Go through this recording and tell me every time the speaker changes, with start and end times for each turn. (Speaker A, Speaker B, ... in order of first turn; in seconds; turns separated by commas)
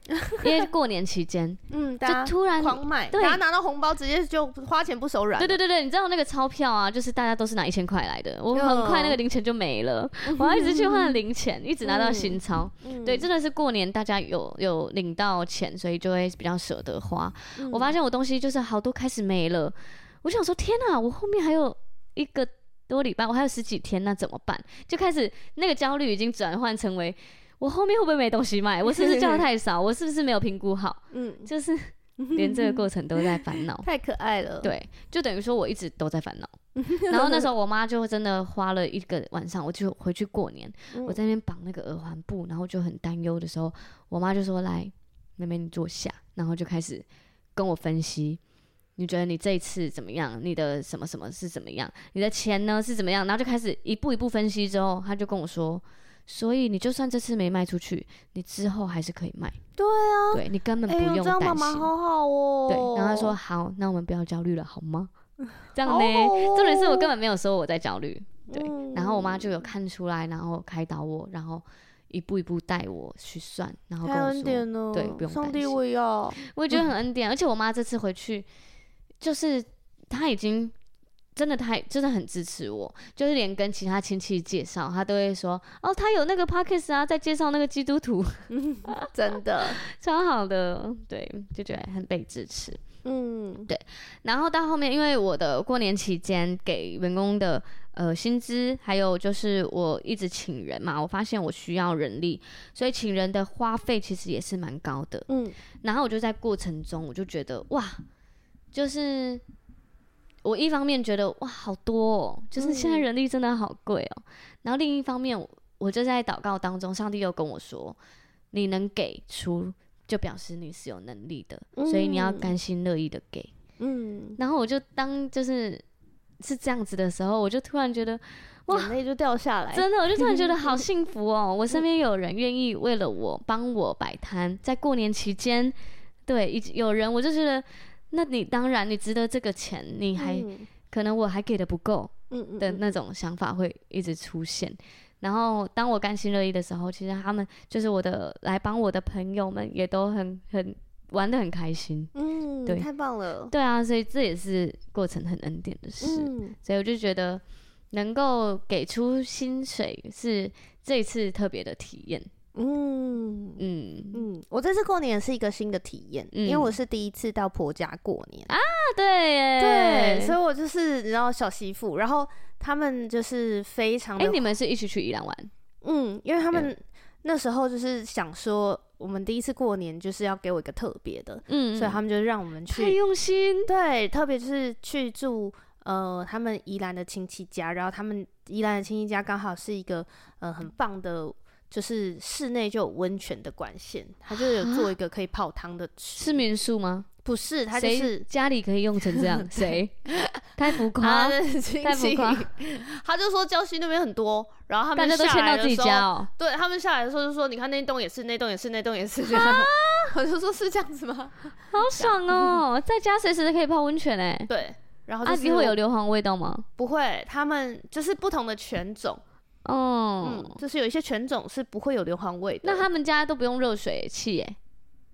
Speaker A: 0.1-0.7, Speaker B: 0.4-3.4, Speaker A: 1.7-5.6, Speaker B: 5.4-33.9, Speaker A: 8.5-9.2, Speaker A: 10.2-11.2, Speaker A: 11.8-13.3, Speaker A: 17.6-17.9, Speaker A: 28.9-29.4, Speaker A: 31.1-31.5, Speaker A: 32.2-34.7, Speaker B: 34.6-47.0, Speaker A: 36.8-37.5, Speaker A: 40.9-41.2, Speaker B: 47.5-48.4, Speaker B: 49.0-59.6, Speaker A: 59.8-63.4, Speaker B: 60.3-61.9, Speaker B: 62.7-65.1, Speaker B: 65.7-75.8, Speaker A: 65.8-67.1, Speaker A: 68.5-69.5, Speaker A: 74.0-76.4, Speaker B: 76.4-78.5, Speaker B: 79.2-80.7, Speaker B: 81.4-89.1, Speaker A: 88.5-89.8, Speaker B: 89.8-92.8, Speaker A: 93.0-93.7, Speaker B: 93.7-105.3, Speaker A: 105.3-105.5, Speaker B: 105.8-108.0, Speaker B: 108.7-109.4, Speaker B: 110.4-118.0, Speaker A: 112.6-113.0, Speaker B: 118.5-123.5, Speaker A: 121.8-122.5, Speaker A: 123.8-124.4, Speaker B: 124.4-125.8, Speaker B: 126.4-128.9, Speaker A: 128.7-130.8, Speaker B: 129.7-135.8, Speaker B: 136.2-152.1, Speaker A: 140.2-140.7, Speaker A: 142.3-142.8, Speaker A: 152.1-153.5, Speaker B: 153.5-162.3, Speaker A: 156.0-156.6, Speaker A: 162.5-163.6, Speaker B: 163.6-164.2, Speaker A: 164.1-168.5, Speaker B: 166.3-166.7, Speaker B: 168.5-170.4, Speaker A: 169.6-174.5, Speaker B: 174.2-175.5, Speaker A: 175.8-183.0, Speaker B: 181.5-182.0, Speaker B: 182.7-183.7, Speaker A: 183.7-196.4, Speaker B: 194.3-194.9, Speaker B: 196.2-197.1, Speaker A: 197.2-198.2, Speaker B: 197.7-199.9, Speaker A: 199.1-212.6, Speaker B: 200.6-202.5, Speaker B: 204.9-206.3, Speaker B: 209.3-210.1, Speaker B: 211.7-214.5, Speaker A: 214.5-215.8, Speaker B: 215.2-216.7, Speaker A: 216.8-219.2, Speaker B: 219.6-220.6, Speaker A: 220.2-222.9, Speaker B: 222.6-224.6